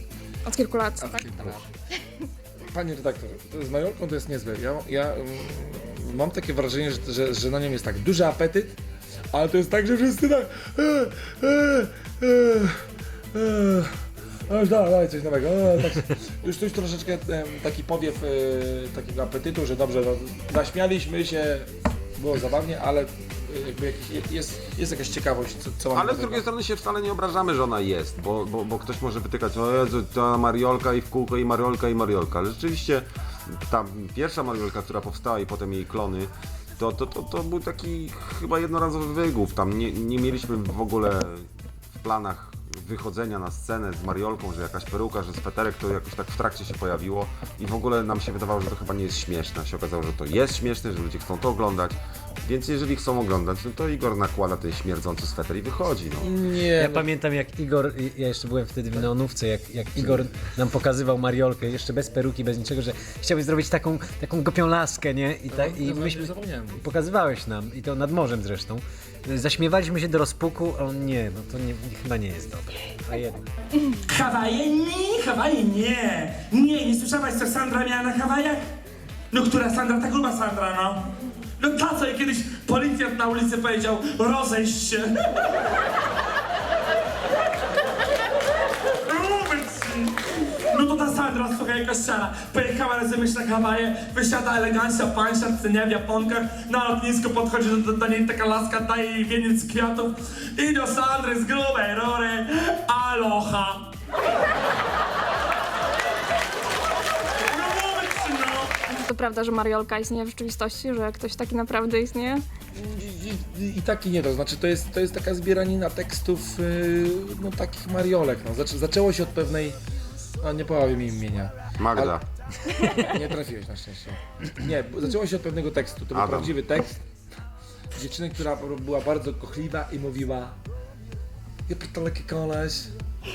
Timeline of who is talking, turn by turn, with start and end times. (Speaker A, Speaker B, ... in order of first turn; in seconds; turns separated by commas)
Speaker A: 0.5-1.3, Speaker B: 1.0-1.6, Speaker B: 2.7-8.8, Speaker B: 9.3-13.9, Speaker B: 14.5-26.4, Speaker C: 25.9-56.3, Speaker B: 56.2-57.1, Speaker D: 56.8-66.2, Speaker B: 65.5-66.8, Speaker D: 66.8-73.5, Speaker E: 74.0-78.6, Speaker E: 79.3-81.0, Speaker E: 81.6-85.2, Speaker E: 89.1-90.1, Speaker E: 90.7-103.8, Speaker E: 107.6-108.7, Speaker A: 108.8-112.4, Speaker B: 112.8-119.8, Speaker B: 120.4-122.2, Speaker C: 121.8-122.2, Speaker B: 122.7-127.0, Speaker C: 126.1-126.6, Speaker B: 127.9-130.6, Speaker B: 131.7-132.9